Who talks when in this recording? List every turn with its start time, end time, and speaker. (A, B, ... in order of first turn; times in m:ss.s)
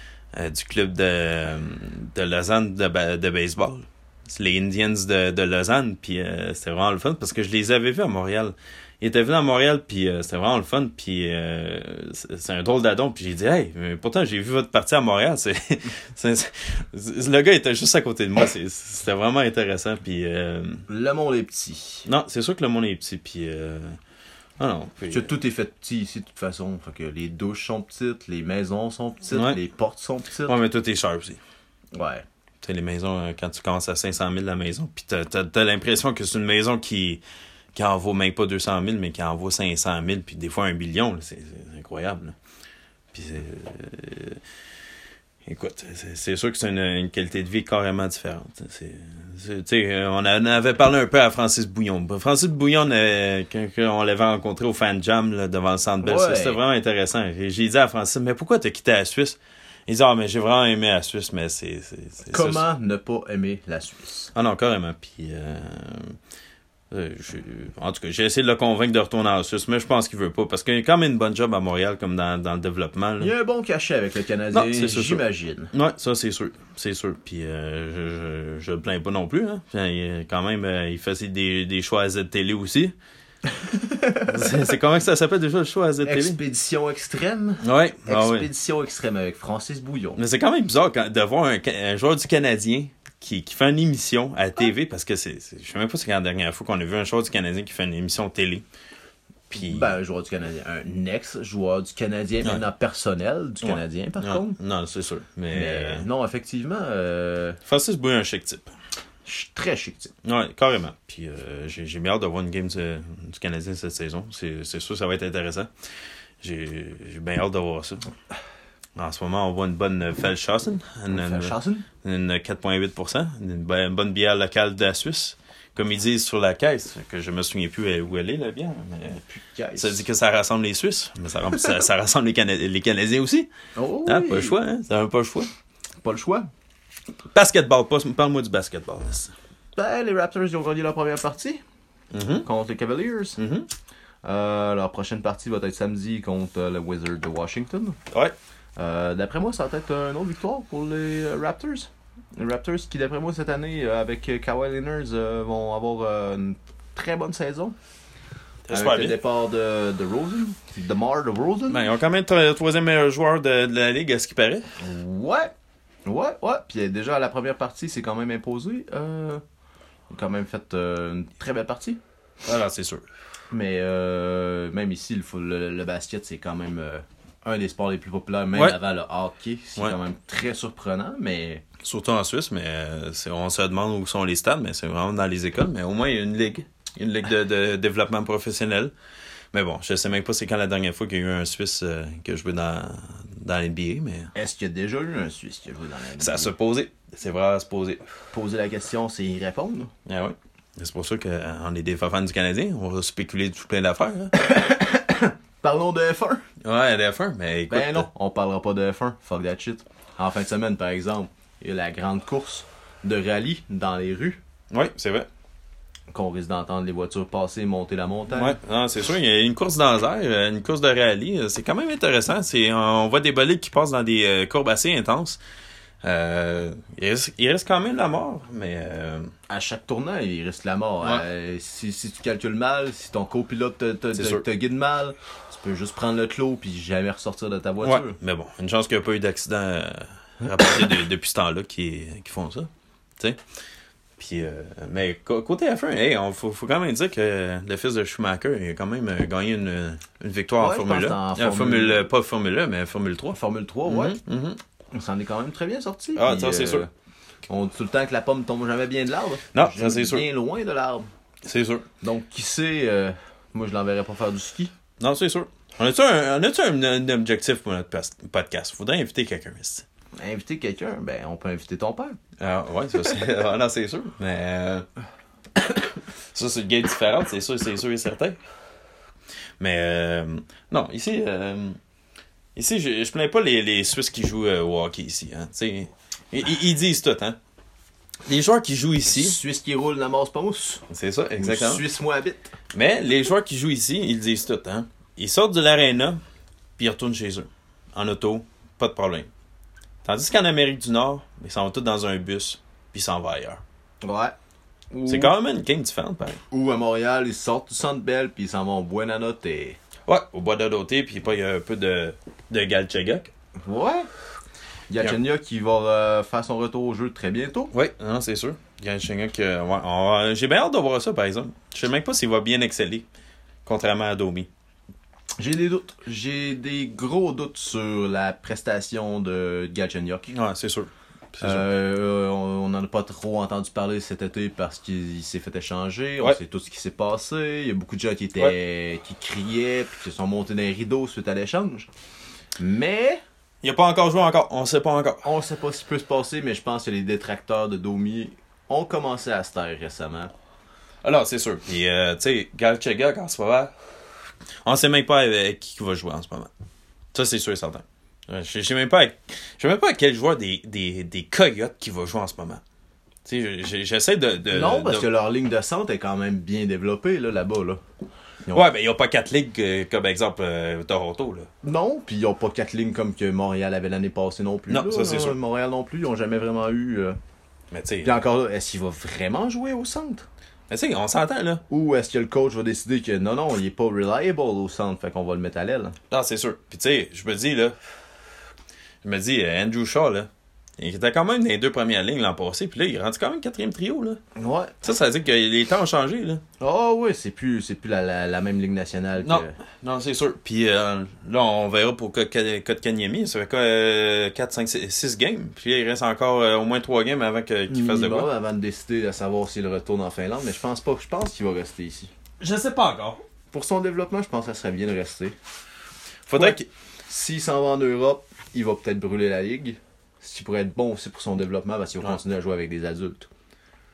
0:00.3-0:20.8 A
0:20.9-0:22.1 B
0:22.1-0:24.0 A
0:24.6-0:25.3 A
0:25.1-0:30.6 B
0:29.3-0:29.6 A
0:30.5-0:31.4 A
0:31.9-0:32.2 B
0:32.6-0:37.2 A
0:37.7-0:42.4 A
0:43.1-0:44.4 A
0:45.4-1:02.6 A
0:56.0-0:56.6 B
1:02.3-1:04.3 B
1:04.4-1:06.2 A
1:06.9-1:13.3 A
1:13.2-1:15.7 B
1:14.5-1:23.0 A
1:23.5-1:24.6 B
1:24.3-1:26.4 A
1:26.0-1:30.2 B
1:27.6-1:28.5 A
1:30.2-1:38.6 A
1:39.5-1:39.9 A
1:39.5-1:44.6 B
1:43.6-1:46.1 A
1:45.5-1:47.6 B
1:47.7-1:48.7 A
1:49.2-1:50.1 B
1:50.2-1:55.7 A
1:56.4-1:58.1 A
1:59.0-2:09.2 A
2:01.1-2:01.9 B
2:09.1-2:10.0 B
2:09.8-2:13.5 A
2:13.8-2:14.6 B
2:14.1-2:15.5 A
2:16.0-2:16.5 B
2:17.3-2:19.3 A
2:19.8-2:21.6 B
2:22.1-2:22.5 A
2:22.4-2:23.4 B
2:23.4-2:23.7 A
2:24.2-2:28.0 B
2:28.8-2:37.8 B
2:38.7-2:39.2 A
2:38.7-2:41.9 B
2:41.7-2:44.7 A
2:44.8-2:45.5 B
2:46.1-2:49.4 B
2:50.1-2:52.0 B
2:52.4-2:53.0 A
2:53.5-3:01.6 B
3:01.8-3:08.9 A
3:09.5-3:14.3 A
3:14.3-3:16.5 B
3:16.2-3:18.0 A
3:18.3-3:19.9 B
3:20.1-3:24.3 A
3:24.3-3:26.4 B
3:26.6-3:28.1 A
3:27.7-3:34.4 B
3:34.7-3:35.3 A
3:36.1-3:38.6 B
3:38.3-3:45.4 A
3:46.0-3:49.3 A
3:49.5-3:58.2 B
3:54.2-3:54.4 A
3:57.8-4:03.4 A
4:04.2-4:14.6 A
4:10.6-4:12.0 B
4:13.3-4:14.2 B
4:14.9-4:16.9 B
4:16.2-4:16.8 A
4:17.5-4:21.1 B
4:19.5-4:20.2 A
4:21.4-4:21.9 A
4:22.0-4:24.7 B
4:25.0-4:29.9 A
4:30.2-4:32.2 B
4:32.4-4:34.8 A
4:36.3-4:38.4 A
4:39.6-4:41.8 A
4:42.6-4:47.4 A
4:48.2-4:49.4 A
4:49.1-4:50.8 B
4:50.9-4:51.8 A
4:51.4-4:52.5 B
4:52.7-4:56.2 A
4:56.8-4:59.3 A
5:00.0-5:03.6 A
5:04.0-5:04.4 B
5:04.9-5:05.4 B
5:05.1-5:06.4 A
5:06.5-5:09.8 B
5:10.1-5:13.3 A
5:13.7-5:14.1 B
5:14.9-5:17.7 B
5:17.7-5:23.1 A
5:23.6-5:24.5 A
5:25.4-5:30.3 B
5:30.3-5:31.7 A
5:31.4-5:41.9 B
5:42.6-5:43.2 B
5:43.6-5:45.2 A
5:45.2-5:50.3 B
5:51.0-5:53.7 A
5:54.6-5:56.5 A
5:57.1-6:02.6 A
6:03.2-6:05.1 A
6:04.5-6:07.8 B
6:08.5-6:11.5 A
6:11.6-6:17.2 B
6:14.7-6:15.4 A
6:17.7-6:18.1 A
6:18.0-6:20.3 B
6:20.7-6:21.6 A
6:21.7-6:26.0 B
6:26.1-6:27.8 A
6:29.0-6:34.2 A
6:34.4-6:34.9 B
6:34.8-6:36.4 A
6:36.6-6:39.6 B
6:39.2-6:48.3 A
6:47.7-6:52.1 B
6:52.4-6:53.2 A
6:53.5-6:55.4 B
6:56.3-6:56.7 A
6:56.4-7:03.3 B